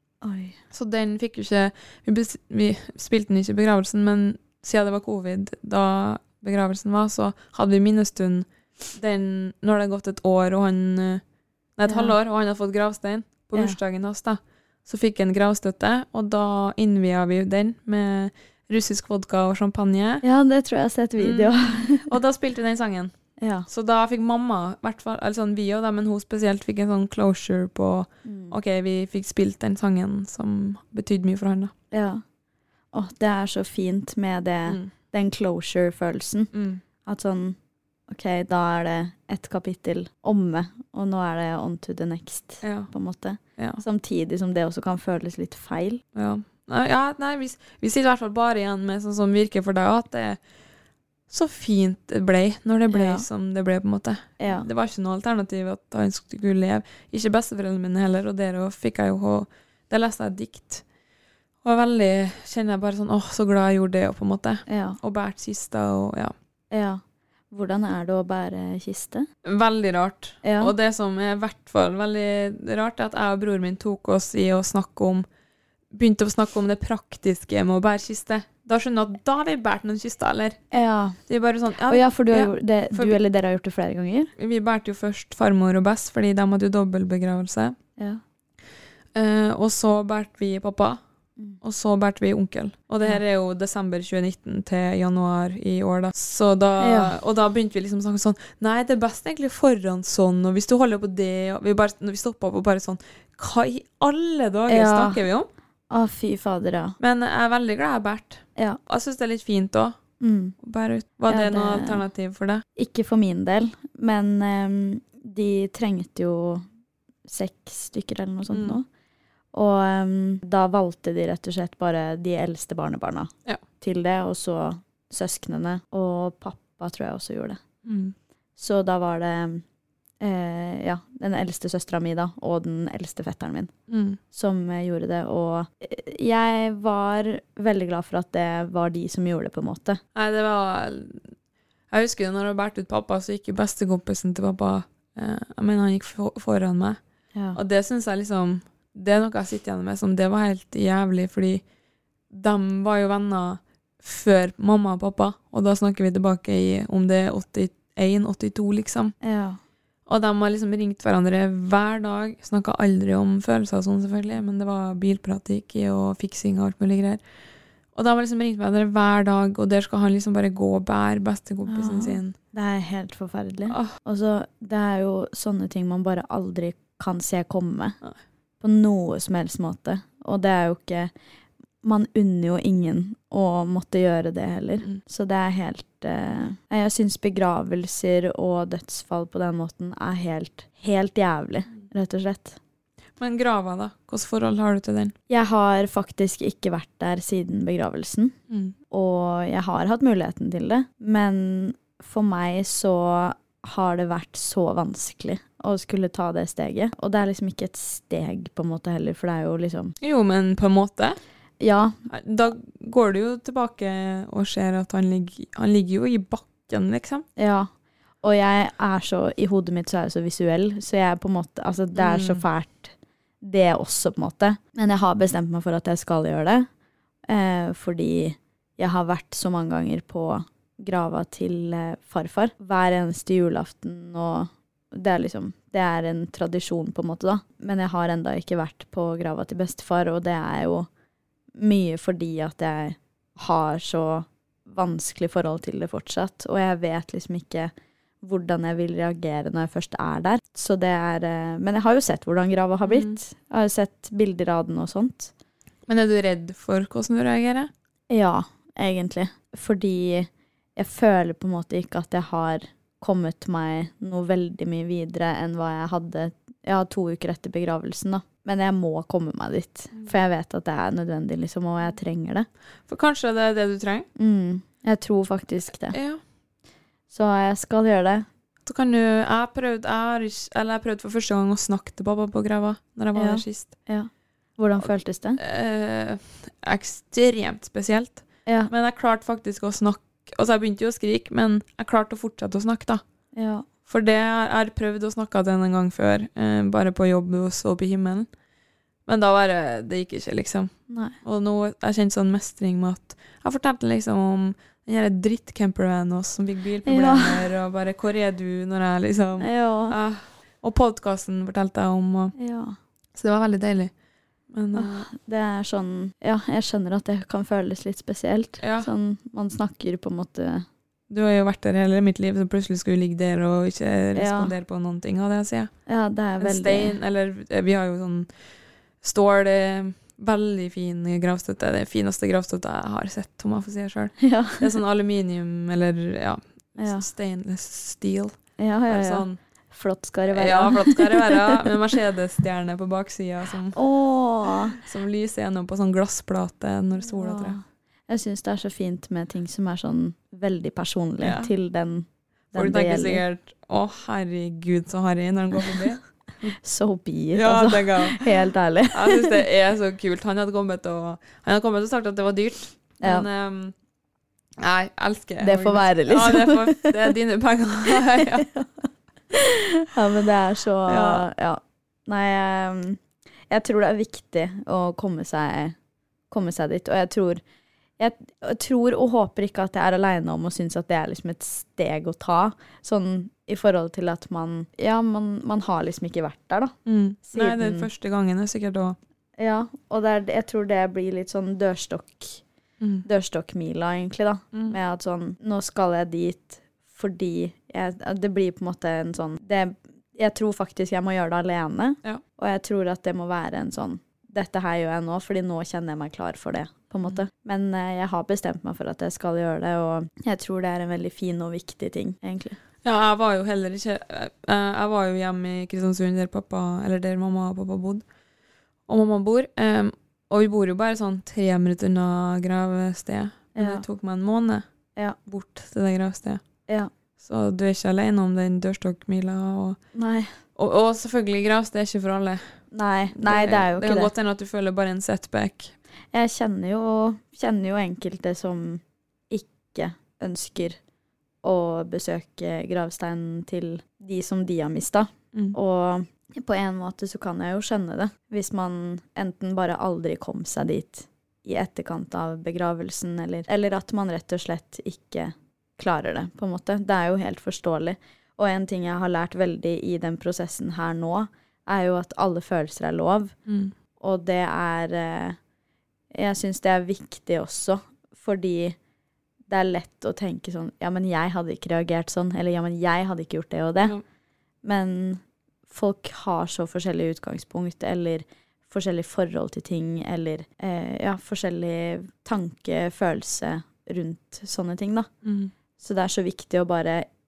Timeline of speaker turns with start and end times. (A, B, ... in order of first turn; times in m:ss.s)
0:00.2-0:00.6 A
0:00.7-0:11.2 B
0:11.8-0:20.2 B
0:11.9-0:12.2 A
0:20.2-0:22.1 A
0:21.2-0:31.7 B
0:23.4-0:23.7 A
0:28.2-0:28.6 A
0:31.9-0:32.2 A
0:32.9-0:36.5 A
0:34.7-0:34.9 B
0:36.5-0:36.8 B
0:37.0-0:37.6 A
0:38.1-0:46.0 A
0:42.6-0:42.9 B
0:43.6-0:43.8 B
0:46.2-0:50.4 B
0:51.3-1:00.9 B
0:52.9-0:53.2 A
0:54.4-0:54.7 A
1:01.6-1:06.4 B
1:04.7-1:05.0 A
1:06.7-1:09.3 A
1:09.4-1:15.3 B
1:10.4-1:10.7 A
1:15.9-1:20.6 B
1:20.7-1:21.3 A
1:21.3-1:23.2 B
1:21.8-1:24.3 A
1:24.4-1:27.8 B
1:29.2-1:31.0 B
1:31.6-1:45.5 B
1:36.8-1:37.2 A
1:44.7-1:45.2 A
1:45.9-1:47.0 A
1:47.0-1:50.0 B
1:50.2-1:50.6 A
1:50.6-1:52.6 B
1:51.3-1:52.0 A
1:52.8-1:56.6 A
1:57.3-1:58.8 A
1:58.5-1:58.8 B
1:59.5-2:07.6 A
2:07.8-2:08.2 B
2:08.6-2:09.6 A
2:10.2-2:13.7 A
2:13.9-2:14.2 B
2:14.3-2:20.0 A
2:20.2-2:21.3 B
2:21.9-2:27.0 B
2:27.5-2:31.6 B
2:32.3-2:39.2 B
2:39.2-2:39.6 A
2:40.1-2:52.4 B
2:51.7-2:58.0 A
2:53.7-2:54.0 B
2:58.6-3:01.1 A
3:01.8-3:12.6 A
3:13.2-3:15.1 B
3:15.3-3:18.4 A
3:18.5-3:18.8 B
3:18.9-3:30.0 A
3:30.0-3:31.2 B
3:31.6-3:32.0 A
3:32.1-3:37.3 B
3:37.4-3:37.7 A
3:38.2-3:46.7 A
3:42.0-3:42.4 B
3:47.3-4:00.9 A
4:01.6-4:15.3 A
4:12.9-4:13.2 B
4:15.9-4:17.7 B
4:18.1-4:32.5 A
4:32.9-4:34.1 B
4:34.2-4:36.0 A
4:35.9-4:36.2 B
4:37.1-4:38.3 A
4:38.6-4:43.8 B
4:43.2-4:45.4 A
4:44.8-4:53.0 B
4:53.4-4:53.7 A
4:53.9-4:58.3 B
4:59.1-5:12.4 B
5:00.9-5:01.2 A
5:06.9-5:07.5 A
5:09.4-5:10.0 A
5:12.4-5:12.8 A
5:13.2-5:13.9 B
5:14.5-5:15.1 B
5:14.8-5:20.7 A
5:18.6-5:18.9 B
5:21.1-5:25.7 B
5:24.2-5:24.5 A
5:25.9-5:27.0 A
5:26.4-5:39.4 B
5:34.2-5:34.6 A
5:36.8-5:37.0 A
5:38.6-5:41.6 A
5:40.3-5:43.8 B
5:43.8-5:44.8 A
5:44.8-5:47.6 B
5:47.2-5:53.2 A
5:51.2-5:51.5 B
5:52.5-5:56.6 B
5:56.6-5:59.3 A
5:57.3-5:58.3 B
5:58.9-6:03.7 B
6:03.0-6:03.3 A
6:04.6-6:08.5 B
6:05.4-6:06.9 A
6:07.9-6:15.8 A
6:10.9-6:11.3 B
6:16.3-6:17.4 A
6:18.0-6:26.8 A
6:26.9-6:29.0 B
6:27.3-6:27.9 A
6:29.4-6:32.4 A
6:32.8-6:33.1 B
6:33.0-6:52.6 A
6:34.5-6:34.8 B
6:52.8-6:58.1 B
6:58.9-7:04.6 B
7:03.6-7:03.8 A
7:05.3-7:06.4 B
7:07.2-7:09.8 B
7:10.0-7:10.3 A
7:10.6-7:12.6 B
7:12.7-7:14.1 A
7:13.2-7:15.7 B
7:16.1-7:20.8 A
7:21.4-7:43.4 A
7:43.5-7:43.7 B
7:44.0-7:45.4 A
7:46.1-7:48.8 A
7:49.5-7:54.0 A
7:54.6-8:05.1 A
8:05.2-8:05.5 B
8:05.8-8:07.1 A